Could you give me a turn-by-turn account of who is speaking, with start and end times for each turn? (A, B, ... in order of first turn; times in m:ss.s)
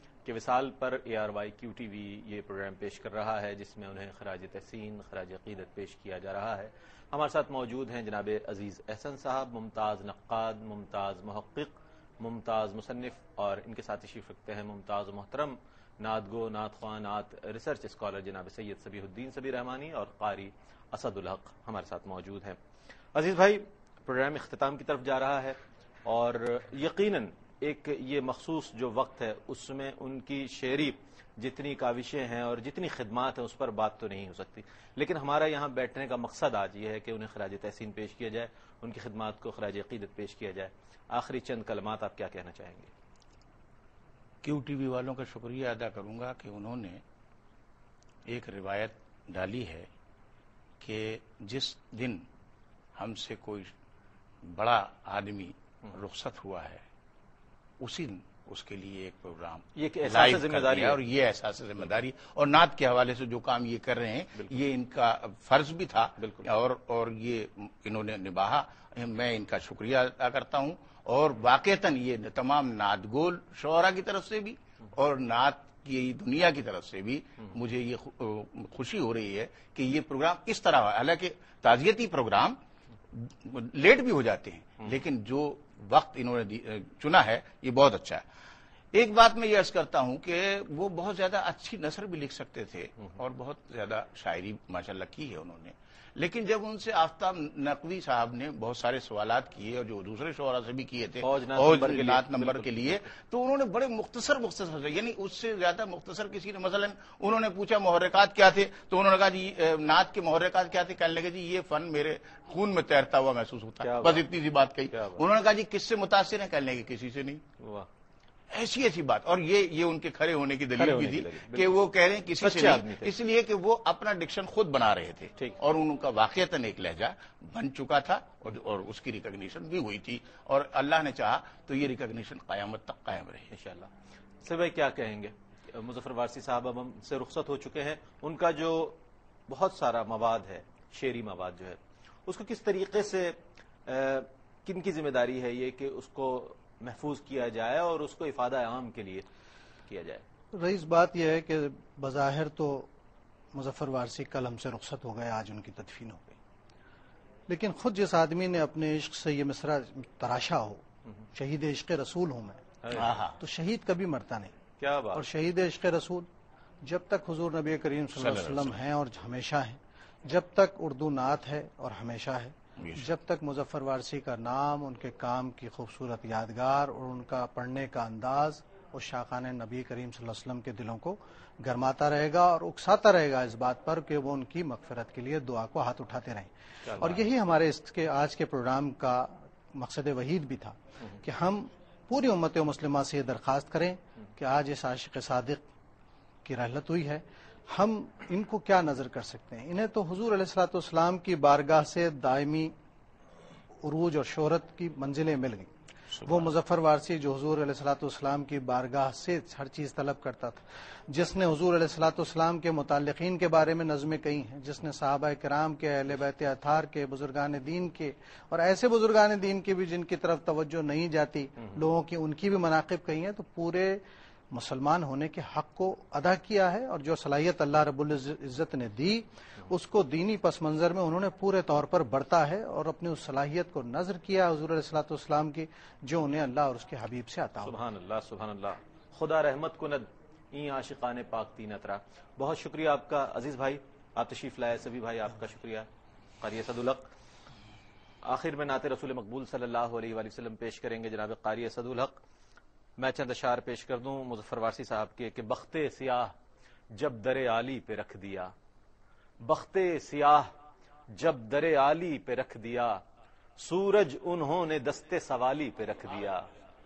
0:00.3-0:22.6 A
0:23.2-0:42.9 A
0:44.4-0:47.0 B
0:48.3-0:49.9 B
0:50.8-0:52.2 B
0:53.0-0:53.7 B
0:54.4-0:56.8 B
0:57.8-1:22.6 B
0:59.8-1:01.0 A
1:06.2-1:06.5 A
1:23.1-1:28.2 B
1:28.9-1:57.4 B
1:41.2-1:43.1 A
1:53.8-1:54.3 A
1:54.9-1:55.2 A
1:57.6-1:57.9 A
1:58.5-2:13.5 B
2:00.8-2:01.9 A
2:02.4-2:03.1 A
2:13.5-2:13.9 A
2:14.4-2:29.2 A
2:29.8-2:30.2 A
2:30.6-2:32.9 C
2:33.5-2:36.4 C
2:37.5-2:40.8 C
2:41.4-2:42.6 C
2:42.8-2:43.2 A
2:42.9-2:43.4 B
2:43.4-2:44.5 C
2:44.8-2:45.3 A
2:45.1-2:46.3 C
2:46.8-3:15.6 C
2:48.2-2:48.8 B
2:52.8-2:53.1 B
3:06.9-3:07.2 A
3:16.4-3:22.7 C
3:23.8-3:25.7 C
3:26.1-3:26.5 B
3:26.2-3:57.8 C
3:57.6-4:05.9 A
4:06.4-4:07.1 A
4:08.2-4:12.2 A
4:13.0-4:16.3 A
4:17.0-4:18.5 A
4:19.4-4:20.5 A
4:21.1-4:23.0 A
4:23.6-4:26.4 A